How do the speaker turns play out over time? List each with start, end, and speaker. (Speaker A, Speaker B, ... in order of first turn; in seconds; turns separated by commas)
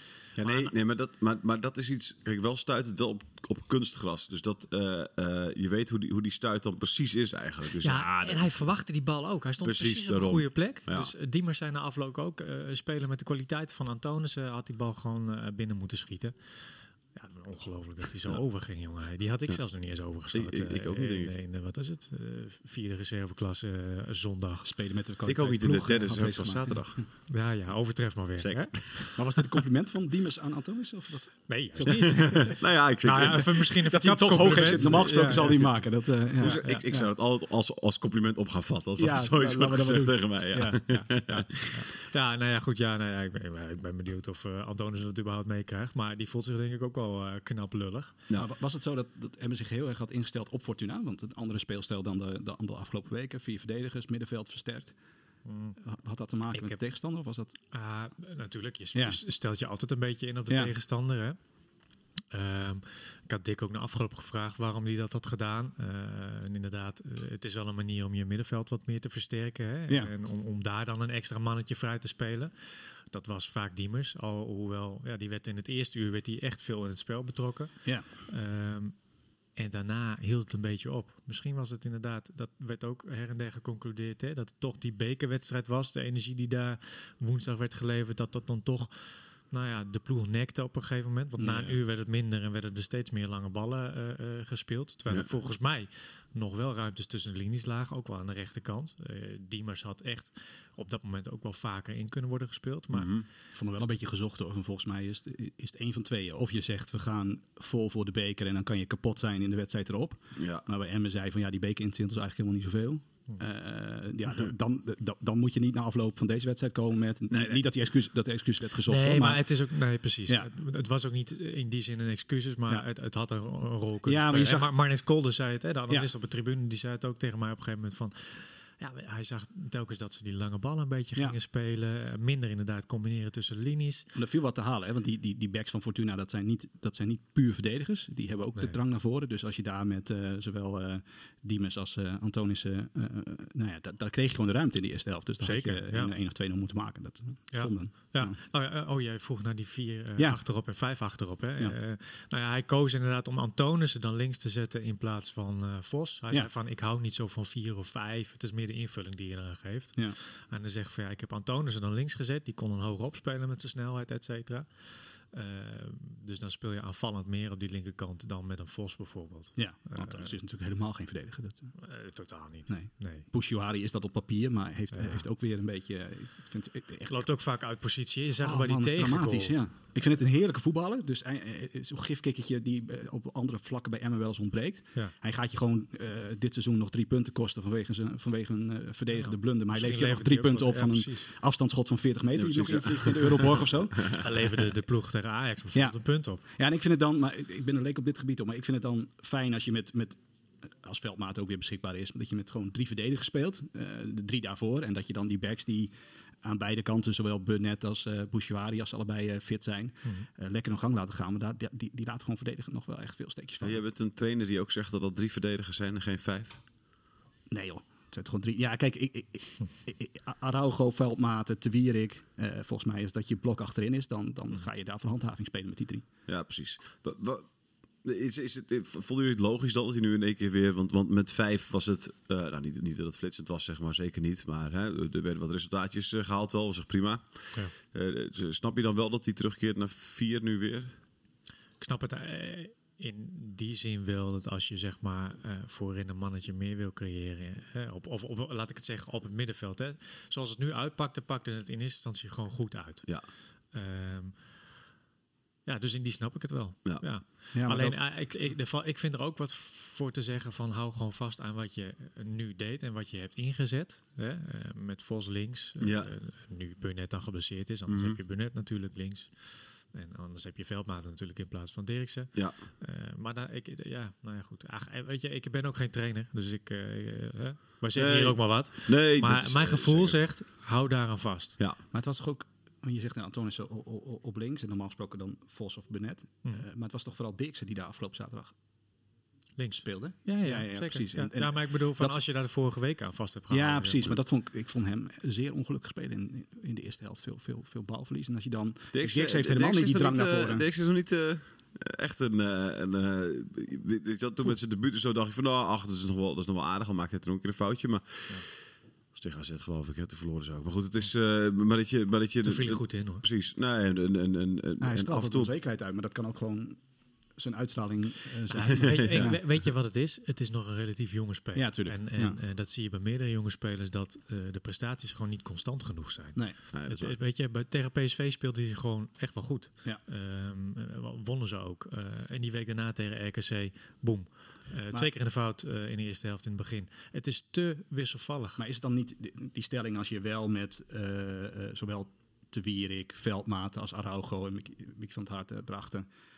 Speaker A: 0.4-0.8, Speaker B: 0.4-8.7, Speaker A: 7.8-24.7, Speaker B: 9.6-11.1, Speaker B: 20.3-21.3, Speaker C: 24.6-27.1, Speaker B: 25.3-27.0, Speaker A: 27.3-29.1, Speaker B: 28.4-29.2, Speaker C: 29.1-32.5, Speaker A: 31.5-35.7, Speaker B: 31.9-33.8, Speaker C: 33.2-37.1, Speaker B: 34.4-35.7, Speaker B: 36.4-41.9, Speaker A: 36.4-36.9, Speaker C: 39.0-40.9, Speaker A: 40.9-48.2, Speaker C: 48.3-55.0, Speaker A: 55.5-55.8, Speaker C: 55.8-57.5, Speaker A: 56.5-56.8, Speaker A: 57.7-61.4, Speaker C: 59.0-59.2, Speaker A: 62.3-79.0, Speaker A: 79.6-103.1, Speaker C: 91.4-91.8, Speaker B: 102.9-103.3, Speaker C: 103.5-119.4, Speaker B: 110.4-110.6, Speaker B: 117.3-117.6, Speaker A: 118.9-134.1, Speaker C: 124.1-124.7, Speaker C: 134.1-148.4, Speaker A: 145.4-146.1, Speaker A: 147.5-170.3, Speaker C: 169.6-171.8, Speaker A: 171.8-173.3, Speaker C: 172.7-177.3, Speaker A: 174.9-175.3, Speaker A: 177.1-179.6, Speaker C: 178.4-194.3, Speaker A: 189.1-191.3, Speaker B: 192.4-194.2, Speaker A: 194.2-196.4, Speaker C: 195.7-200.2, Speaker C: 200.8-205.9, Speaker C: 206.4-213.8, Speaker B: 213.6-216.6, Speaker C: 217.5-226.1, Speaker B: 226.3-227.5, Speaker B: 228.0-240.9, Speaker A: 241.8-254.5, Speaker A: 255.7-281.6, Speaker C: 257.5-258.0, Speaker B: 265.8-266.1, Speaker B: 267.9-268.2, Speaker B: 278.0-280.2, Speaker C: 281.9-288.5, Speaker A: 289.6-294.1, Speaker C: 289.8-292.2, Speaker C: 293.5-300.6, Speaker B: 298.9-308.5, Speaker B: 309.1-315.5, Speaker A: 312.4-313.2, Speaker C: 314.8-316.8, Speaker C: 317.4-319.4, Speaker A: 318.6-338.6, Speaker B: 318.7-319.4, Speaker C: 321.6-322.4, Speaker B: 326.7-327.2, Speaker C: 338.6-346.1